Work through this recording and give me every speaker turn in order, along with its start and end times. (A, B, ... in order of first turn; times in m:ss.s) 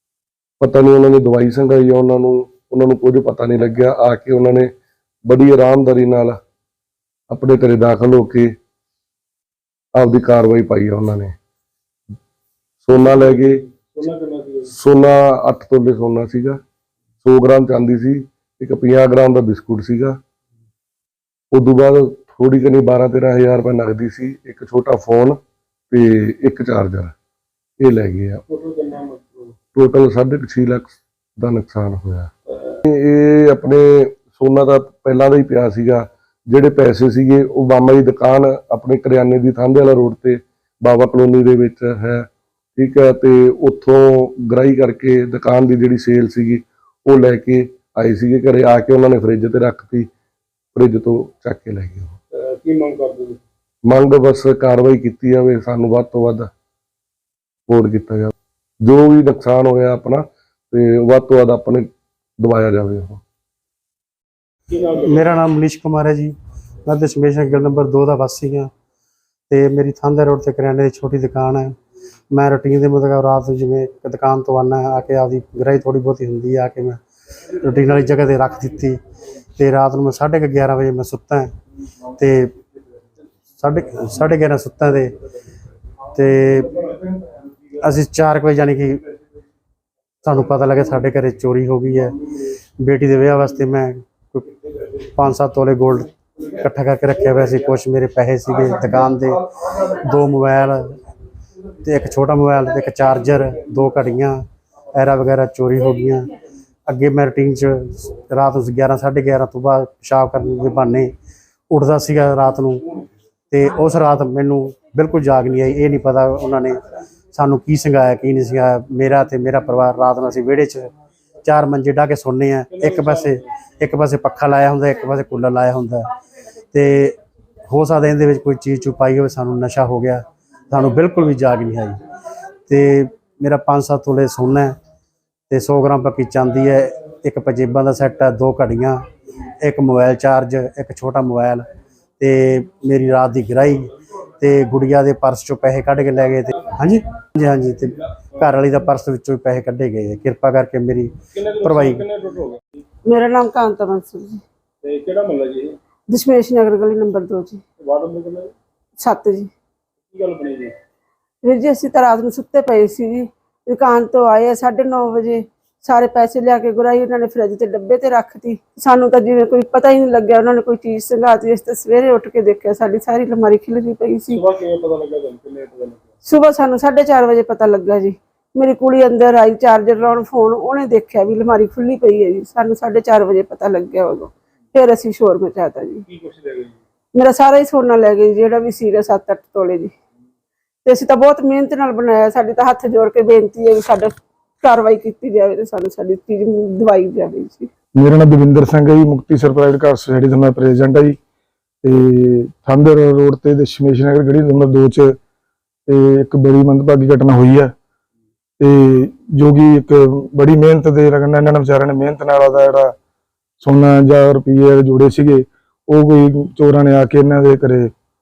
0:00.6-0:04.7 A
0:05.2-0:06.4 A
0:07.3-0:08.5 A
0:10.0-0:11.4 A
0:12.8-0:13.6 A
0:12.9-0:14.7 B
0:14.7-0:16.6 A
0:17.2-0:20.2 A
0:21.5-0:25.4 A
0:25.9-0:27.2 A
0:27.8-0:28.4 A
0:28.5-0:29.5 B
0:29.7-0:32.3 A
0:32.9-0:50.1 A
0:50.7-0:52.2 A
0:52.6-0:53.4 B
0:53.9-0:56.5 A
0:57.7-0:58.3 A
0:58.8-1:03.2 A
1:04.7-1:05.3 B
1:05.0-1:08.7 C
1:09.5-1:11.8 C
1:12.3-1:17.0 C
1:17.6-1:19.0 C
1:19.6-1:21.5 C
1:22.2-1:22.5 C
1:23.6-1:25.1 C
1:26.1-1:26.8 C
1:27.8-1:29.0 C
1:30.2-1:32.2 C
1:32.8-1:34.5 C
1:35.1-1:41.0 C
1:41.8-1:44.4 C
1:44.9-1:46.3 C
1:46.9-1:51.1 C
1:51.7-1:52.9 C
1:53.5-1:56.8 C
1:57.3-2:00.9 C
2:01.4-2:06.1 C
2:02.7-2:03.3 B
2:06.7-2:07.2 C
2:07.7-2:12.0 C
2:12.7-2:14.8 C
2:15.5-2:19.0 C
2:19.6-2:21.7 C
2:22.2-2:32.1 C
2:31.4-2:32.6 B
2:33.1-2:34.4 D
2:34.8-2:35.8 B
2:36.1-2:37.6 D
2:37.8-2:38.5 B
2:39.0-2:39.5 D
2:40.1-2:40.7 B
2:41.4-2:54.5 D
2:54.4-2:56.0 B
2:56.2-3:06.1 D
3:06.1-3:06.8 B
3:07.1-3:10.0 D
3:10.8-3:17.7 D
3:18.0-3:21.2 E
3:21.8-3:25.2 E
3:25.9-3:27.7 E
3:28.6-3:33.0 E
3:33.6-3:37.9 E